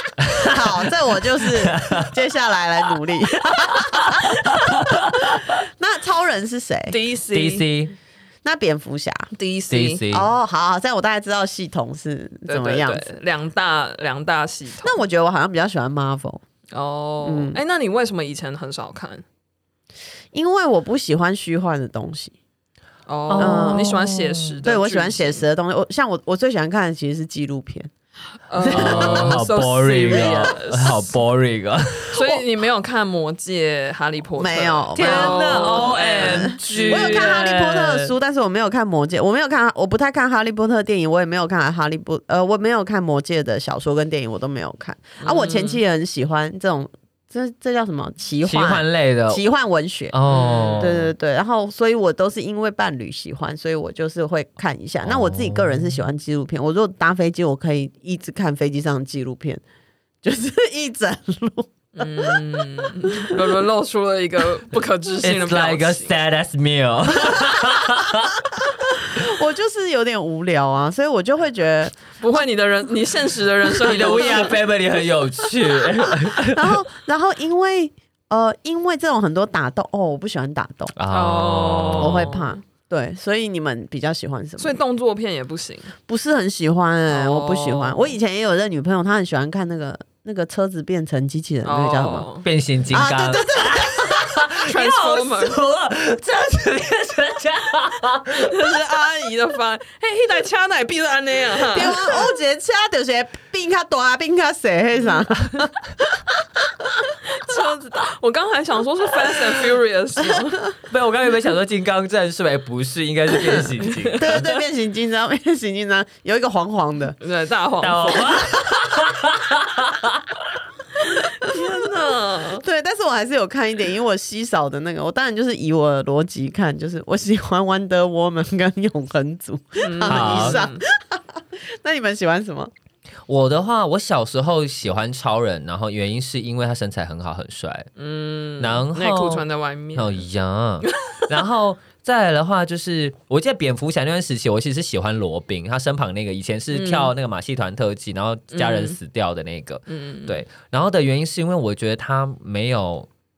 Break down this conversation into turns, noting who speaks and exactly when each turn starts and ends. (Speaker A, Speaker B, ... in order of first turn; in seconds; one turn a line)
Speaker A: 0.2-0.6
Speaker B: 0.4-7.0
Speaker A: 1.6-2.1
Speaker A: 3.6-5.6
Speaker C: 6.9-7.6
Speaker A: 7.3-7.9
Speaker B: 8.4-9.3
Speaker C: 9.3-10.0
Speaker A: 9.7-10.3
Speaker B: 10.1-13.1
Speaker C: 12.5-15.0
Speaker B: 14.8-16.4
Speaker C: 16.7-19.2
Speaker B: 17.2-17.6
Speaker B: 20.3-22.4
Speaker C: 23.1-25.4
Speaker A: 23.3-24.6
Speaker B: 23.4-24.0
Speaker B: 24.6-27.9
Speaker C: 28.5-31.1
Speaker B: 28.6-29.4
Speaker A: 28.7-32.4
Speaker B: 30.1-30.5
Speaker C: 32.1-37.4
Speaker B: 34.4-50.1
Speaker A: 34.9-38.1
Speaker C: 45.2-45.8
Speaker A: 48.4-49.4
Speaker A: 50.1-51.1
Speaker C: 50.3-50.9
Speaker B: 50.8-59.6
Speaker A: 55.0-56.0
Speaker B: 60.2-63.5
Speaker C: 62.0-66.1
Speaker A: 65.2-68.4
Speaker B: 69.0-72.4
Speaker C: 72.2-74.6
Speaker B: 73.7-74.5
Speaker A: 73.8-76.8
Speaker B: 76.5-80.9
Speaker A: 81.0-82.3
Speaker C: 81.1-82.6
Speaker B: 82.0-84.8
Speaker C: 84.6-86.0
Speaker B: 86.1-92.3
Speaker C: 87.1-88.1
Speaker C: 91.6-92.5
Speaker A: 92.4-98.6
Speaker B: 92.9-94.3
Speaker C: 94.6-95.6
Speaker C: 98.3-102.3
Speaker B: 101.7-105.7
Speaker C: 107.2-110.7
Speaker A: 110.9-114.5
Speaker C: 113.9-114.2
Speaker B: 114.2-117.2
Speaker C: 117.2-118.5
Speaker A: 117.8-120.4
Speaker C: 121.0-122.6
Speaker B: 122.6-132.7
Speaker C: 129.8-130.8
Speaker A: 130.0-130.6
Speaker A: 133.3-137.9
Speaker C: 138.0-140.2
Speaker A: 138.6-153.1
Speaker C: 140.8-141.2
Speaker C: 146.7-147.1
Speaker C: 148.5-149.0
Speaker C: 149.9-150.4